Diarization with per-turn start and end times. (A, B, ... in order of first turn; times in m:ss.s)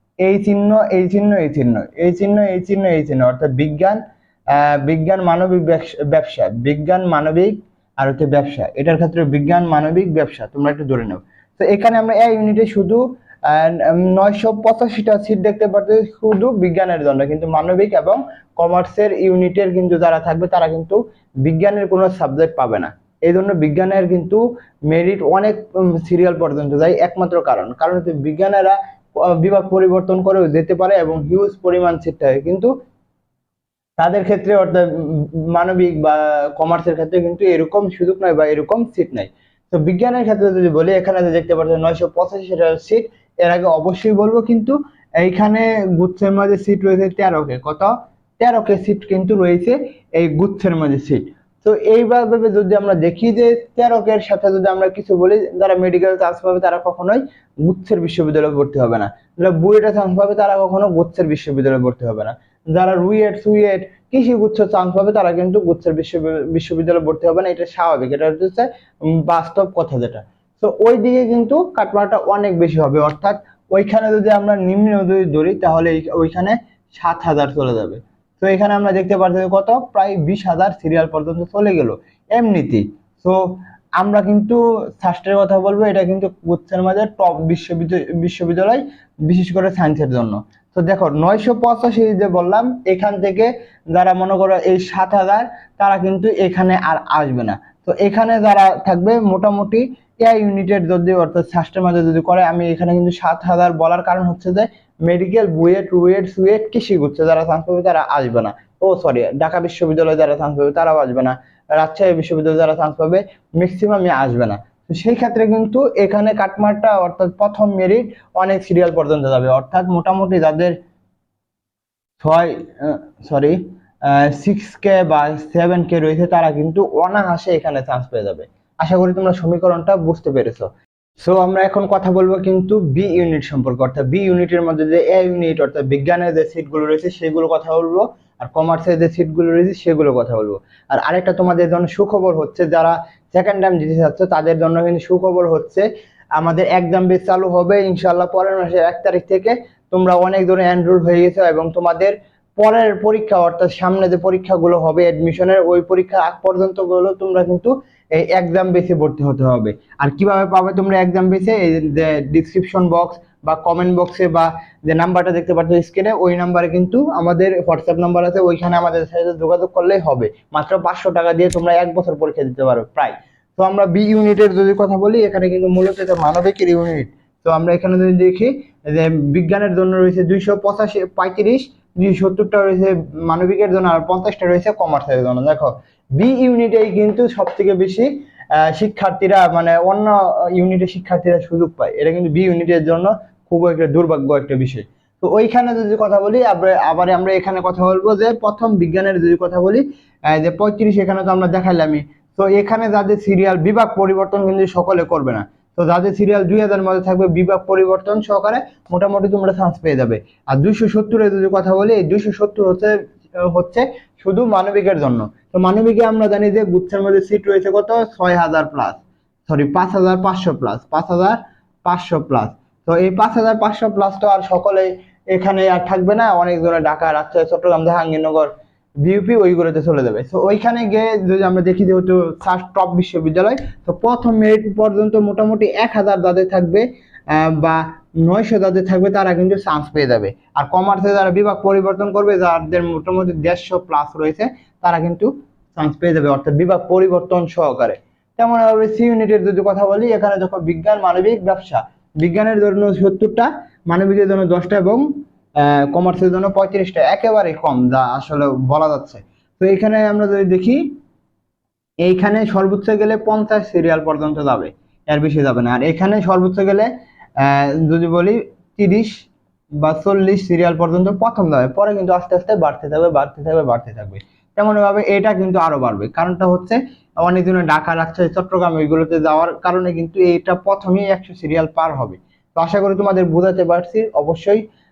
0:00.2-0:04.0 A
0:04.5-0:32.7 A
0:34.0-2:00.8 A
2:02.2-2:10.7 A
2:11.2-3:48.5 A
3:49.0-4:20.9 A
4:22.0-4:29.2 A
4:29.8-4:44.6 A